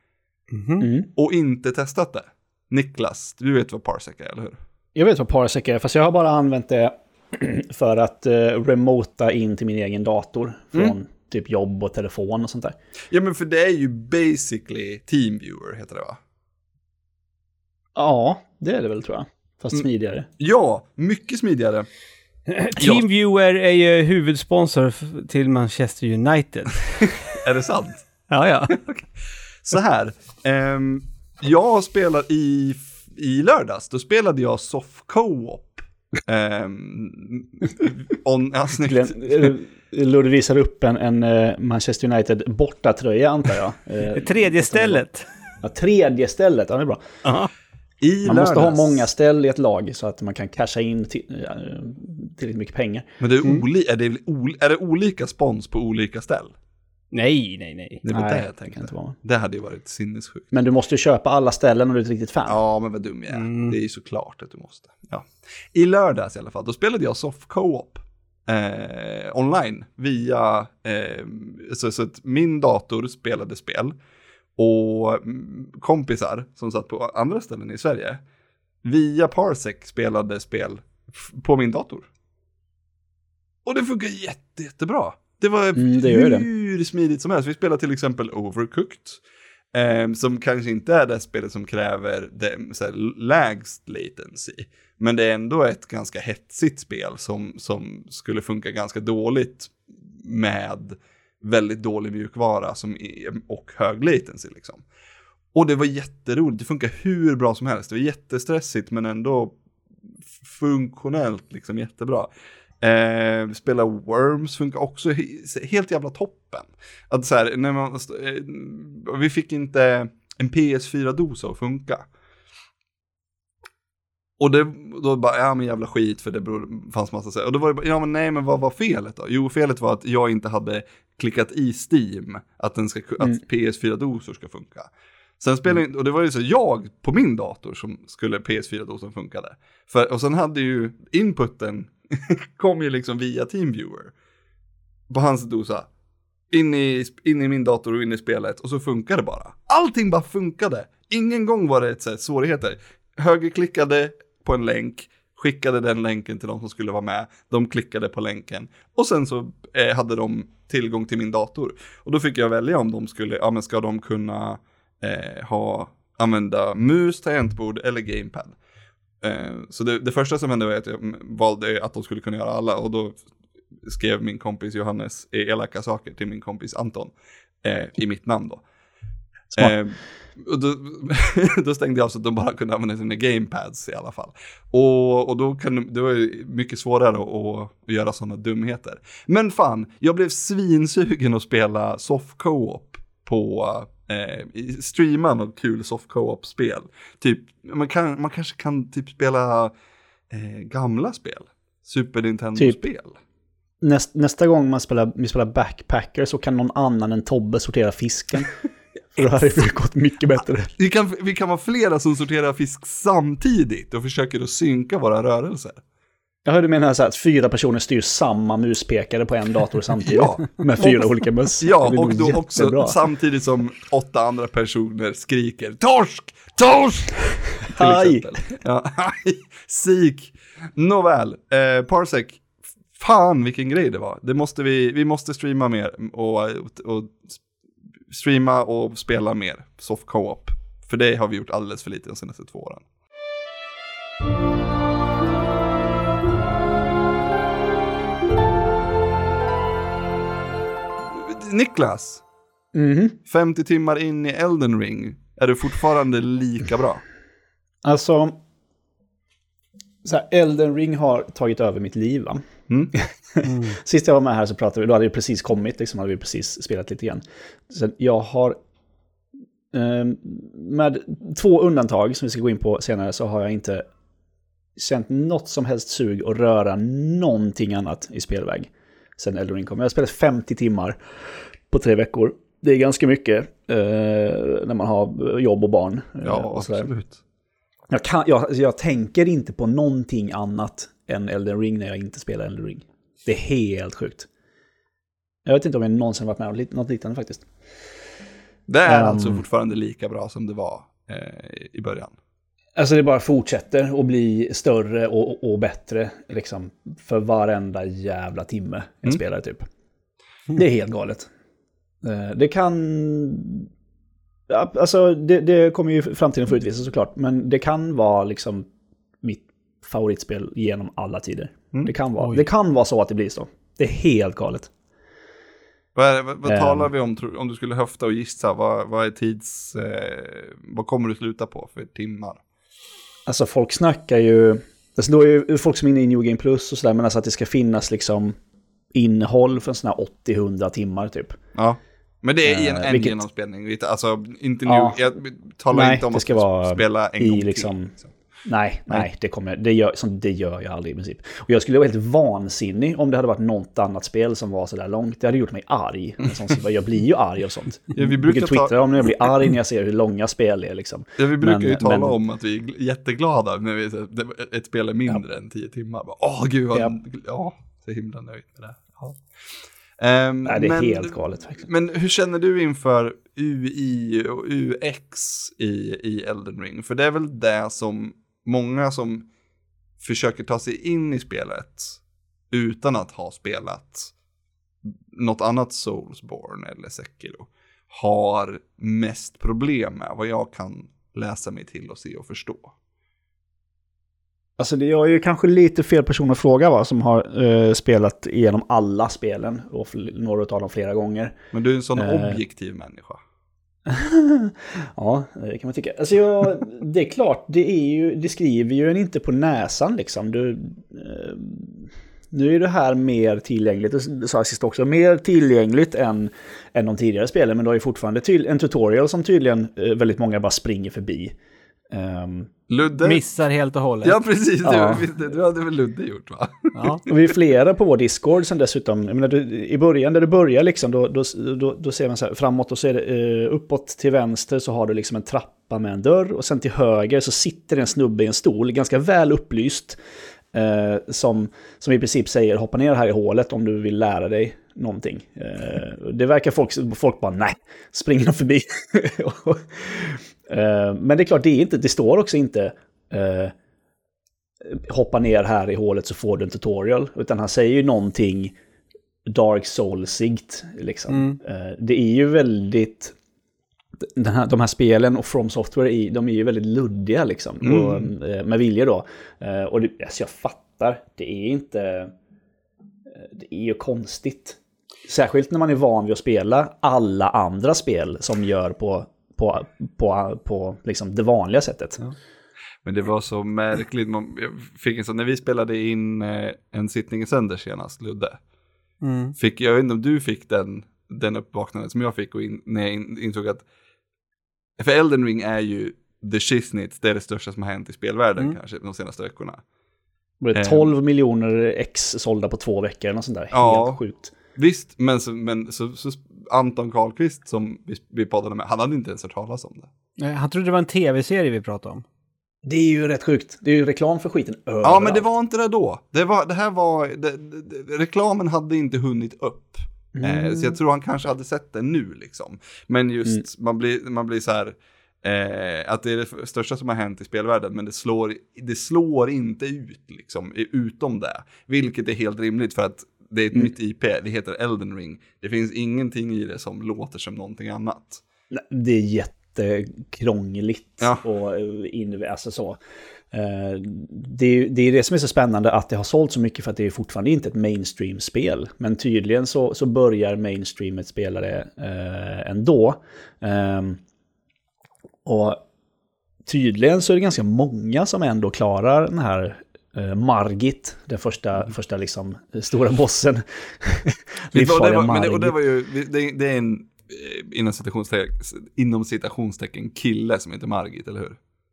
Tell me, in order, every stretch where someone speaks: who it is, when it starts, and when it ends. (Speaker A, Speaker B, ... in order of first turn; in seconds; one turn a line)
Speaker A: 0.5-0.9
Speaker B: 0.8-1.1
Speaker C: 1.1-4.6
Speaker B: 5.0-12.8
Speaker C: 13.1-16.2
Speaker B: 18.0-20.3
Speaker C: 20.4-21.9
Speaker A: 22.5-27.1
Speaker C: 22.8-23.0
Speaker C: 27.3-28.1
Speaker A: 28.3-28.8
Speaker C: 28.8-29.0
Speaker C: 29.6-39.5
Speaker B: 38.8-45.0
Speaker A: 44.1-45.3
Speaker B: 45.6-47.0
Speaker A: 47.2-47.5
Speaker C: 48.0-49.1
Speaker B: 48.2-53.1
Speaker C: 53.2-56.5
Speaker A: 57.1-58.0
Speaker C: 58.0-60.5
Speaker B: 58.1-59.1
Speaker B: 60.5-62.6
Speaker C: 62.5-74.0
Speaker A: 63.3-63.8
Speaker C: 74.6-78.2
Speaker C: 78.8-82.1
Speaker C: 83.7-89.2
Speaker B: 85.8-86.5
Speaker C: 89.7-104.8
Speaker C: 105.5-109.6
Speaker C: 110.4-112.3
Speaker C: 112.8-122.1
Speaker C: 124.4-144.1
Speaker C: 145.1-145.9
Speaker C: 146.5-168.6
Speaker C: 169.2-173.2
Speaker C: 173.9-178.6
Speaker C: 179.6-199.7
Speaker C: 200.3-203.2
Speaker B: 203.8-208.5
Speaker B: 209.2-210.7
Speaker C: 210.8-215.8
Speaker B: 216.4-223.0
Speaker C: 220.0-237.4
Speaker B: 227.7-228.4
Speaker C: 238.1-242.8
Speaker C: 251.1-252.2
Speaker B: 252.7-253.2
Speaker C: 253.3-257.0
Speaker B: 257.8-258.4
Speaker B: 260.0-262.4
Speaker C: 262.7-262.9
Speaker B: 262.9-268.6
Speaker A: 263.4-263.8
Speaker B: 269.7-273.9
Speaker B: 274.8-281.0
Speaker B: 281.7-286.9
Speaker C: 286.2-287.2
Speaker B: 287.9-294.3
Speaker B: 295.5-297.5
Speaker C: 298.7-302.2
Speaker B: 298.9-299.4
Speaker B: 302.8-309.6
Speaker B: 310.5-311.3
Speaker B: 312.0-313.7
Speaker B: 314.5-318.7
Speaker B: 319.2-324.7
Speaker C: 325.9-332.4
Speaker B: 326.5-326.9
Speaker B: 333.3-338.4
Speaker B: 338.9-341.4
Speaker C: 341.6-348.1
Speaker B: 342.5-343.2
Speaker B: 344.7-345.0
Speaker B: 345.7-347.9
Speaker B: 348.4-362.2
Speaker C: 357.9-358.8
Speaker C: 361.2-369.3
Speaker C: 370.0-379.3
Speaker B: 370.4-371.7
Speaker C: 380.0-382.0
Speaker C: 382.5-384.1
Speaker C: 385.1-392.7
Speaker B: 394.6-401.4
Speaker C: 401.5-403.2
Speaker B: 402.0-402.4
Speaker B: 403.9-421.3
Speaker B: 421.9-422.5
Speaker C: 422.7-423.2
Speaker A: 423.0-424.2
Speaker C: 424.0-427.0
Speaker B: 424.6-425.1
Speaker A: 426.8-427.0
Speaker B: 427.1-440.0
Speaker B: 440.5-453.5
Speaker B: 454.6-458.6
Speaker B: 459.3-463.1
Speaker A: 461.1-461.4
Speaker B: 464.0-472.1
Speaker C: 467.6-468.1
Speaker B: 473.1-482.0
Speaker C: 482.8-488.4
Speaker A: 489.0-489.4
Speaker C: 489.4-493.6
Speaker C: 494.8-499.6
Speaker B: 500.4-504.3
Speaker C: 500.5-500.9
Speaker C: 503.5-504.0
Speaker C: 504.6-509.9
Speaker A: 510.2-512.0
Speaker B: 512.6-515.2
Speaker C: 514.8-538.2
Speaker B: 520.1-520.7
Speaker B: 538.5-542.8
Speaker B: 543.3-554.0
Speaker B: 555.2-555.6
Speaker B: 556.5-565.6
Speaker C: 564.5-571.4